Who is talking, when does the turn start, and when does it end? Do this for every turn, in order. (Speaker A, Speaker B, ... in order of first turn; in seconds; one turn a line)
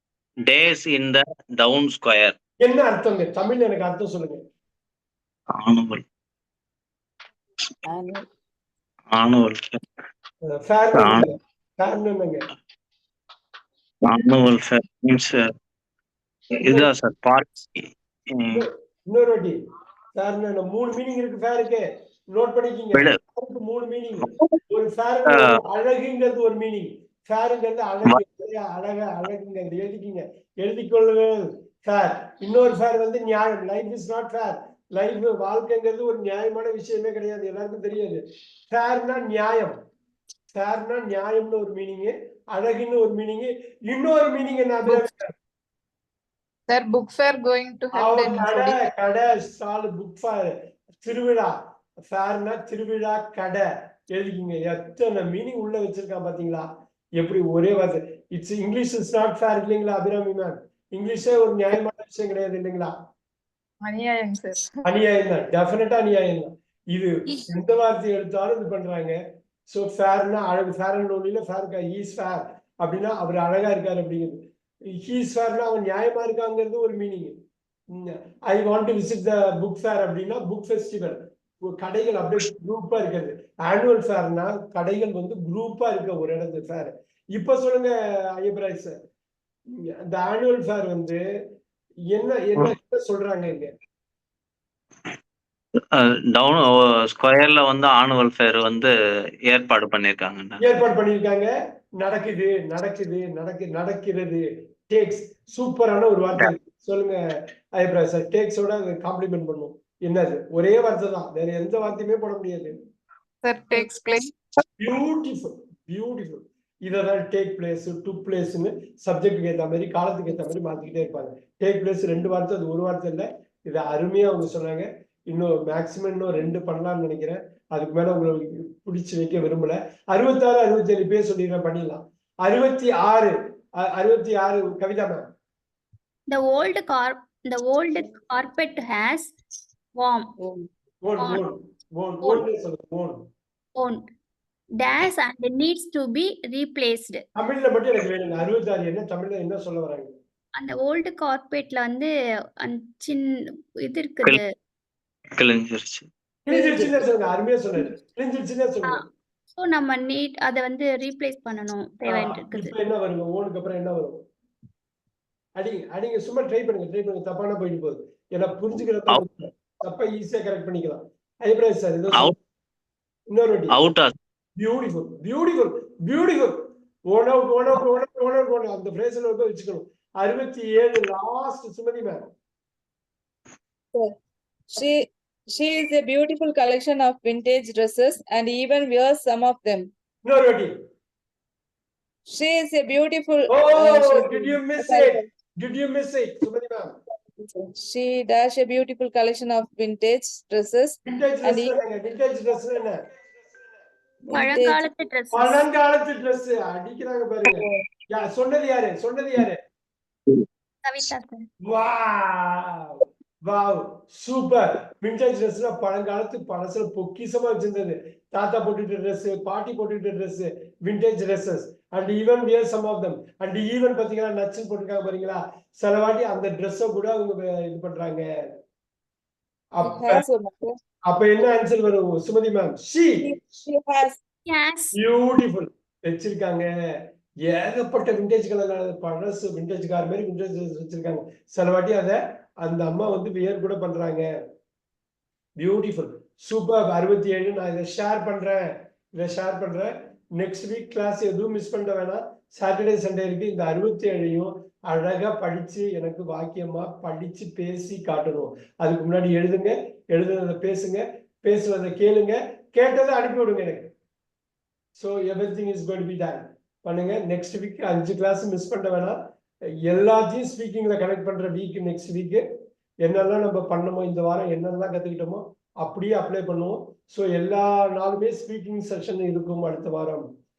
Speaker A: 0.5-2.4
Speaker B: 2.6-4.4
Speaker A: 5.6-6.0
Speaker C: 7.9-8.2
Speaker A: 9.1-9.8
Speaker B: 10.5-12.4
Speaker A: 10.9-11.3
Speaker A: 14.0-15.5
Speaker A: 16.5-18.7
Speaker B: 18.5-19.6
Speaker B: 20.1-39.8
Speaker A: 22.9-23.2
Speaker A: 24.2-24.6
Speaker A: 25.3-25.6
Speaker B: 40.5-45.3
Speaker D: 46.7-48.8
Speaker B: 47.9-51.5
Speaker B: 52.1-56.7
Speaker B: 57.2-62.9
Speaker D: 63.8-64.8
Speaker B: 64.8-74.4
Speaker B: 75.0-77.3
Speaker B: 77.9-88.9
Speaker B: 90.0-91.2
Speaker B: 92.1-93.7
Speaker A: 95.9-98.9
Speaker A: 99.5-100.8
Speaker B: 100.6-107.2
Speaker B: 107.8-112.7
Speaker D: 113.4-114.3
Speaker B: 114.8-133.3
Speaker B: 133.9-135.2
Speaker E: 136.3-139.3
Speaker E: 140.0-140.3
Speaker C: 140.4-140.7
Speaker B: 141.0-143.2
Speaker E: 141.2-141.5
Speaker E: 142.2-142.5
Speaker E: 143.8-144.0
Speaker E: 144.8-147.2
Speaker B: 147.4-150.1
Speaker E: 150.6-152.1
Speaker E: 152.6-153.3
Speaker E: 153.8-154.4
Speaker A: 155.4-156.1
Speaker B: 156.5-159.0
Speaker E: 156.6-157.0
Speaker E: 159.6-162.8
Speaker B: 162.1-164.2
Speaker B: 165.6-172.3
Speaker B: 173.3-173.8
Speaker A: 173.7-174.1
Speaker B: 174.6-182.2
Speaker C: 184.8-189.9
Speaker B: 190.2-190.7
Speaker C: 192.3-195.2
Speaker B: 193.5-196.9
Speaker C: 197.4-201.8
Speaker B: 201.1-203.0
Speaker C: 204.3-204.9
Speaker E: 204.3-205.6
Speaker B: 205.3-209.6
Speaker C: 207.4-207.8
Speaker E: 210.8-211.4
Speaker B: 211.6-228.2
Speaker B: 229.8-230.2
Speaker C: 229.8-230.7
Speaker B: 231.1-233.2
Speaker C: 233.2-234.2
Speaker E: 234.5-234.9
Speaker B: 234.9-236.7
Speaker B: 237.5-244.3
Speaker B: 245.6-263.9
Speaker B: 265.0-269.2
Speaker B: 269.9-272.4
Speaker B: 273.0-280.3